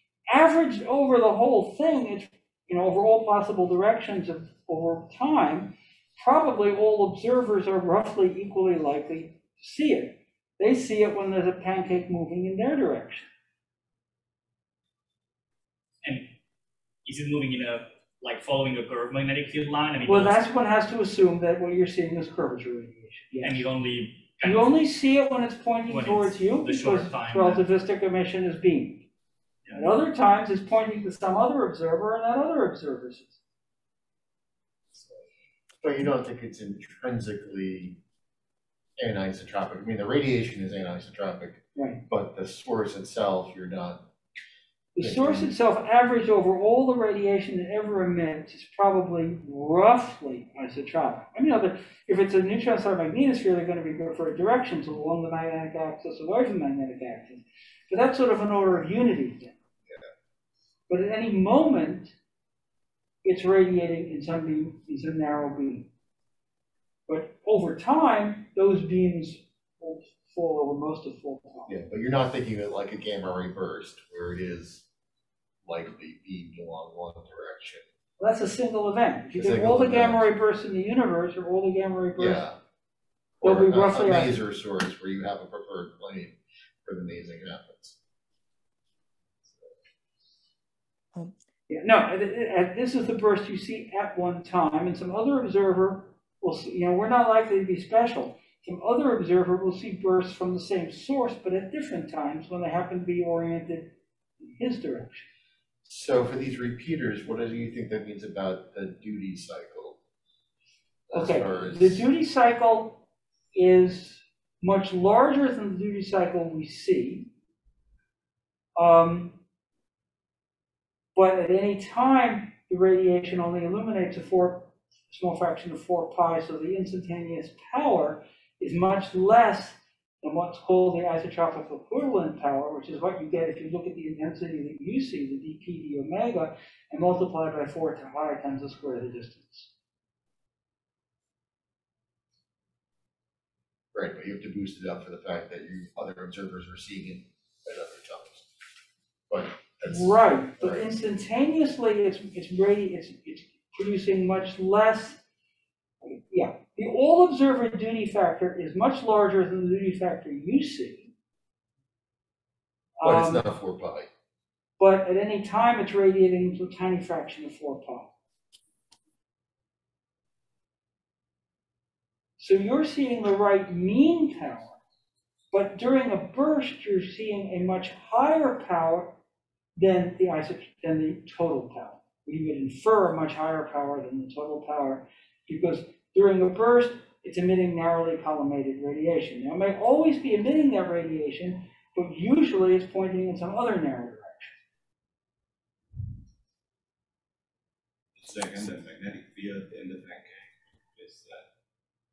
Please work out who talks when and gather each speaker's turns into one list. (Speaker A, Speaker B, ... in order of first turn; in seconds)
Speaker A: 0.3-13.3, 20.1-23.6, 24.4-29.1, 29.7-33.4, 41.8-42.0, 45.0-59.6, 60.9-62.1, 63.2-65.9, 67.1-71.8, 78.2-82.5, 83.4-84.4, 91.7-104.0, 104.5-105.3, 111.1-117.3, 118.8-119.4, 121.2-139.7, 149.8-155.2, 156.0-161.1, 163.0-163.5, 164.8-168.1, 172.4-174.8, 175.5-179.2, 179.8-194.6
Speaker B: 16.0-16.3, 17.1-20.4, 23.4-24.7, 25.9-27.6
Speaker C: 35.8-38.0, 39.0-44.0, 45.0-45.5, 71.7-74.8, 75.6-77.9, 79.3-80.2, 82.2-82.5, 83.4-88.0, 105.8-110.0, 111.1-112.0, 143.9-148.5, 149.3-151.0, 163.0-164.1
Speaker D: 198.2-201.5